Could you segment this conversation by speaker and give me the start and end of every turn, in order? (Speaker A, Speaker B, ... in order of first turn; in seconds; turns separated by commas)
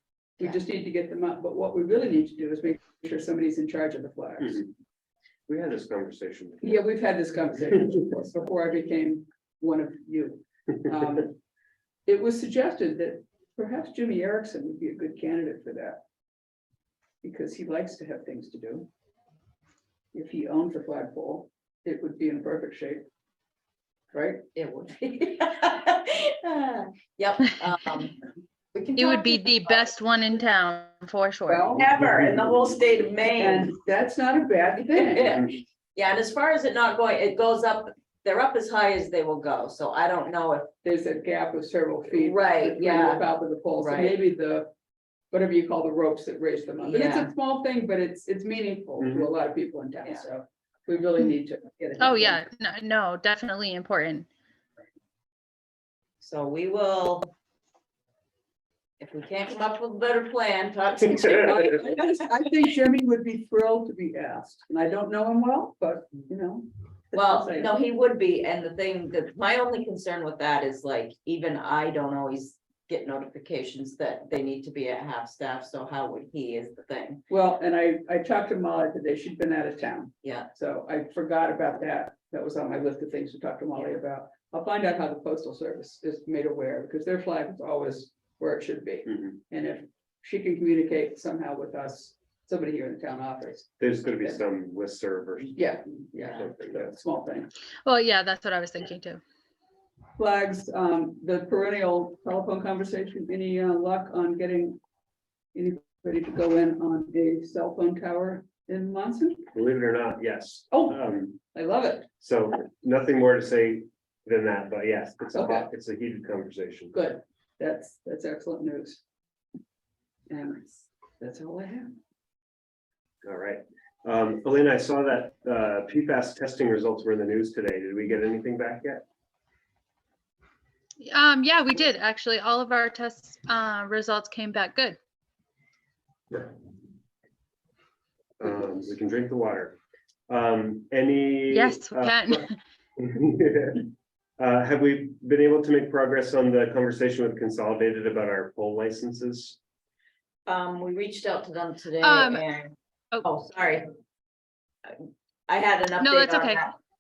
Speaker A: 0.4-4.7, Speaker B: 5.5-6.7, Speaker A: 6.6-11.4, Speaker A: 12.1-16.0, Speaker A: 17.2-18.9, Speaker A: 20.1-23.1, Speaker A: 24.1-24.5, Speaker C: 24.5-28.2, Speaker C: 28.7-29.8, Speaker D: 29.0-31.7, Speaker A: 31.5-31.8, Speaker C: 31.7-33.8, Speaker A: 33.4-35.4, Speaker C: 34.9-40.7, Speaker A: 40.8-44.7, Speaker C: 42.1-43.3, Speaker C: 43.8-44.1, Speaker A: 45.3-52.4, Speaker C: 46.8-47.3, Speaker B: 49.0-49.3, Speaker D: 52.0-54.3, Speaker C: 56.2-57.4, Speaker C: 59.0-61.9, Speaker A: 61.4-67.7, Speaker C: 67.2-77.2, Speaker A: 77.3-93.7, Speaker C: 80.2-80.5, Speaker B: 93.8-95.6, Speaker A: 95.6-97.5, Speaker B: 96.3-97.0, Speaker D: 97.8-99.2, Speaker A: 100.2-104.8, Speaker A: 105.5-109.5, Speaker B: 109.5-111.4, Speaker A: 110.7-111.0, Speaker A: 111.5-112.1, Speaker B: 112.2-116.9, Speaker A: 115.3-115.7, Speaker A: 116.9-119.0, Speaker A: 120.3-122.0, Speaker B: 123.2-129.0, Speaker D: 131.0-135.0, Speaker B: 138.4-139.8, Speaker B: 140.3-142.5, Speaker D: 141.5-142.6, Speaker B: 143.0-149.6, Speaker C: 150.5-152.7, Speaker D: 152.0-152.4, Speaker C: 153.2-153.9, Speaker C: 154.8-156.8, Speaker D: 156.0-156.7